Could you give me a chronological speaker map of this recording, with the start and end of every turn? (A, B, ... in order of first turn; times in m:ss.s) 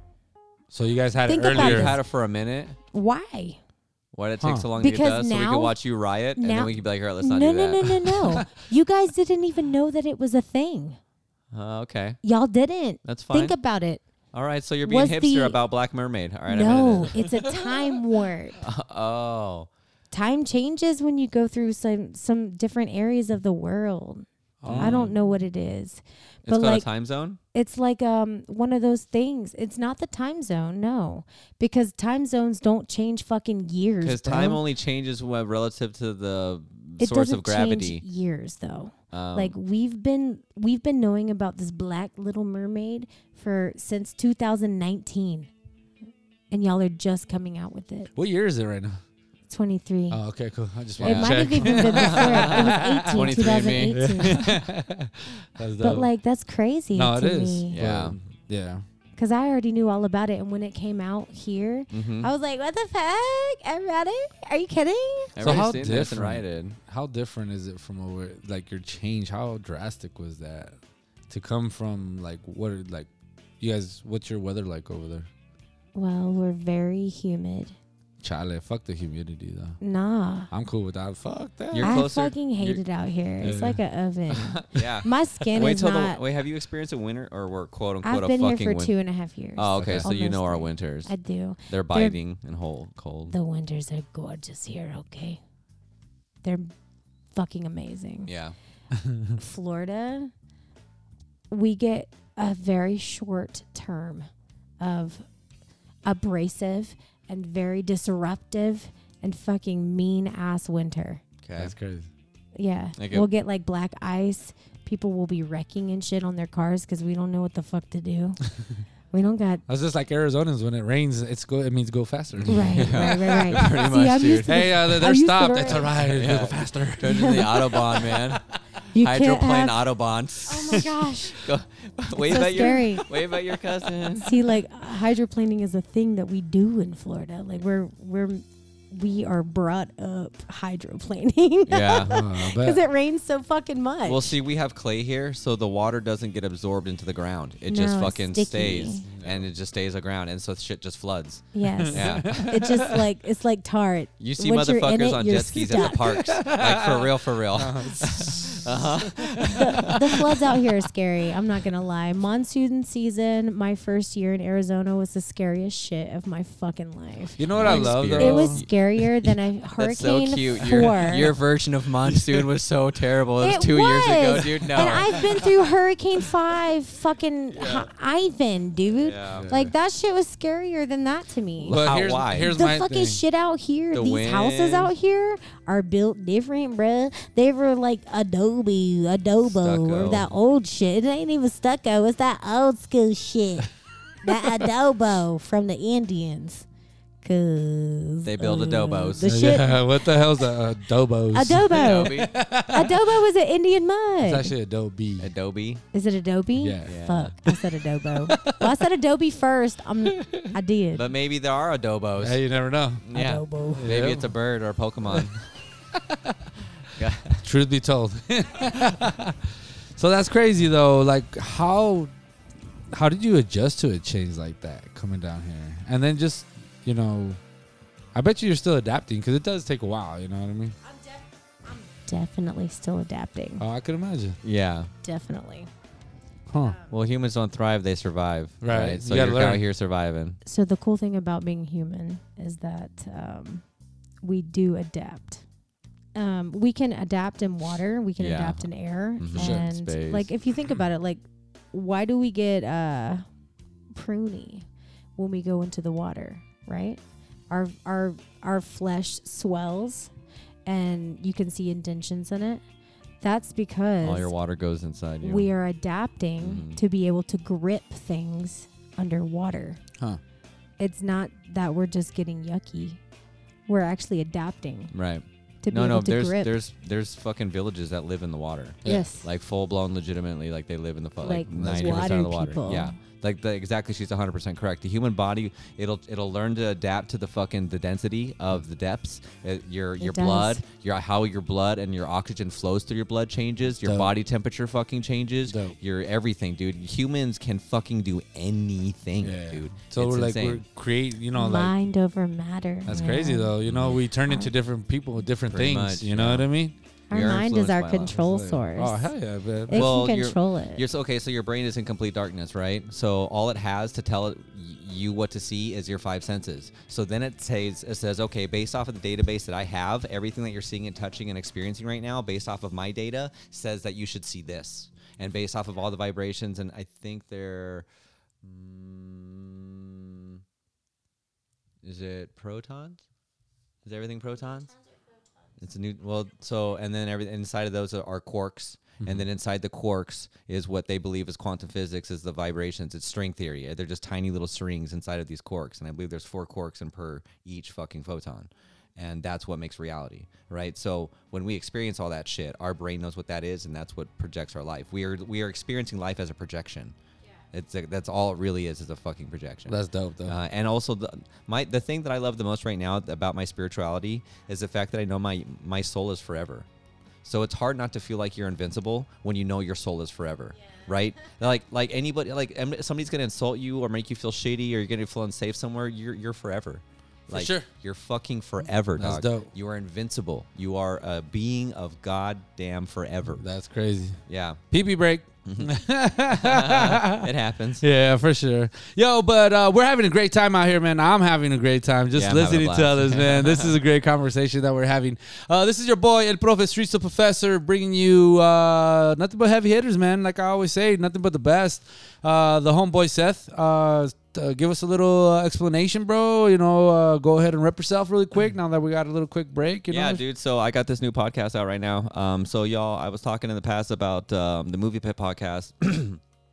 0:00.7-0:02.0 A
0:01.2-0:02.0 B
0:01.5-0:02.8 C
0:02.9-0:03.6 B
0:04.1-0:08.4 C
0:04.4-0:04.7 A
0:04.8-0:05.8 B
0:06.4-0:11.0 B
0:11.5-0:12.2 C
0:12.2-0:14.0 B
0:13.0-0:13.5 C
0:14.3-0:18.0 C
0:14.8-0:15.6 B
0:16.5-0:18.6 B
0:18.6-0:19.7 C
0:20.1-0:26.8 B
0:24.6-0:25.1 A
0:24.7-0:25.2 C
0:26.4-0:27.4 C
0:27.5-0:34.6 B
0:34.0-0:38.0 C
0:37.0-0:45.5 B
0:39.1-0:39.5 C
0:46.5-0:48.1 B
0:48.1-0:49.0 A
0:49.5-0:50.2 B
0:50.1-0:56.1 A
0:51.0-0:54.5 C
0:51.0-0:54.6 B
0:55.8-0:57.8 B
0:56.9-0:58.8 A
0:57.7-0:58.2 C
0:59.2-1:05.4 B
1:01.9-1:02.3 C
1:05.3-1:06.8 C
1:05.4-1:10.8 A
1:11.3-1:13.1 A
1:13.6-1:15.3 A
1:15.9-1:17.7 B
1:18.2-1:19.8 A
1:19.8-1:20.5 B
1:20.5-1:22.1 A
1:21.7-1:22.8 C
1:21.8-1:26.2 B
1:23.4-1:23.8 A
1:24.3-1:28.9 C
1:28.0-1:32.2 B
1:29.6-1:31.1 C
1:29.7-1:30.1 A
1:31.7-1:33.4 C
1:33.3-1:35.4 B
1:36.4-1:36.7 B
1:37.3-1:38.3 B
1:38.2-1:38.5 C
1:39.0-1:39.4 A
1:39.4-1:40.3 B
1:41.5-1:44.3 B
1:44.8-1:45.2 B
1:46.0-1:51.2 B
1:51.4-1:51.7 C
1:51.6-1:52.1 A
1:52.5-1:58.4 B
1:53.0-1:53.3 C
1:59.1-1:59.6 B
1:59.7-2:03.6 A
2:02.4-2:04.7 C
2:02.5-2:05.9 B
2:04.4-2:07.4 A
2:06.0-2:08.4 C
2:07.0-2:07.8 B
2:08.1-2:08.5 A
2:08.9-2:09.8 B
2:09.0-2:14.3 C
2:10.5-2:11.4 B
2:12.2-2:13.1 B
2:14.2-2:24.4 B
2:21.7-2:22.1 C
2:22.0-2:22.8 A
2:24.0-2:32.5 C
2:27.7-2:29.0 B
2:29.0-2:29.5 A
2:31.5-2:36.2 B
2:31.7-2:33.0 A
2:34.2-2:40.5 C
2:35.8-2:40.1 A
2:39.4-2:51.3 B
2:47.4-2:48.6 A
2:47.5-2:55.5 C
2:52.1-2:52.4 A
2:53.4-3:01.8 B
2:57.5-2:57.9 C
2:58.9-2:59.5 C
2:59.3-2:59.7 A
3:01.6-3:02.5 C
3:01.7-3:03.2 A
3:02.5-3:13.7 B
3:03.9-3:04.9 C
3:09.4-3:10.3 C
3:14.2-3:16.6 B
3:17.2-3:19.9 B
3:18.2-3:19.3 C
3:19.2-3:23.1 A
3:21.3-3:24.5 B
3:21.7-3:22.3 C
3:24.2-3:25.3 A
3:25.2-3:25.8 C
3:25.9-3:31.0 B
3:26.6-3:26.9 A
3:26.8-3:27.3 C
3:28.3-3:28.6 A
3:30.1-3:30.5 A
3:30.9-3:32.4 C
3:32.2-3:33.0 A
3:33.0-3:35.5 C
3:33.1-3:33.9 B
3:33.7-3:34.3 A
3:35.9-3:36.3 A
3:37.0-3:37.4 C
3:37.4-3:39.4 A
3:40.0-3:42.1 A
3:42.9-3:47.4 A
3:48.1-3:50.7 A
3:50.8-3:53.6 B
3:53.6-3:54.4 A
3:54.4-3:54.9 C
3:55.0-3:55.7 B
3:56.5-3:56.8 A
3:56.6-3:56.9 B
3:56.9-4:00.4 C
3:58.6-3:59.6 A
4:00.4-4:03.6 B
4:04.2-4:05.4 B
4:06.1-4:13.2 B
4:08.2-4:10.3 C
4:09.3-4:09.7 A
4:13.9-4:14.6 B
4:15.2-4:20.1 B
4:20.6-4:22.6 B
4:23.2-4:24.3 B
4:24.0-4:25.5 C
4:25.2-4:29.8 B
4:26.4-4:26.8 C
4:30.8-4:33.0 B
4:33.7-4:34.9 B
4:34.9-5:00.6 C
4:35.6-4:36.5 B
4:38.8-4:39.3 B
4:41.2-4:43.0 B
4:41.5-4:42.2 A
4:50.0-4:50.6 B
4:53.8-4:54.1 A
4:55.5-4:55.7 A
4:59.2-5:01.7 A
5:01.3-5:03.5 B
5:02.8-5:06.7 A
5:03.6-5:04.0 C
5:04.2-5:04.5 B
5:05.5-5:06.4 C
5:07.1-5:08.1 C
5:07.1-5:09.1 B
5:08.1-5:09.9 A
5:09.7-5:10.8 B
5:09.7-5:27.8 C
5:28.4-5:30.4 C
5:31.8-5:33.0 C
5:33.8-5:34.8 C
5:35.6-5:56.9 C
5:39.0-5:39.2 A
5:57.5-5:59.7 C
5:59.7-6:00.4 A
6:00.2-6:06.7 C
6:07.2-6:23.4 C
6:17.3-6:17.7 A
6:19.0-6:19.5 A
6:23.4-6:24.2 A
6:24.3-6:24.6 C
6:24.7-6:27.2 A
6:25.4-6:25.7 C
6:26.3-6:27.8 C
6:27.8-6:50.2 A
6:32.1-6:33.8 C
6:49.9-6:56.2 C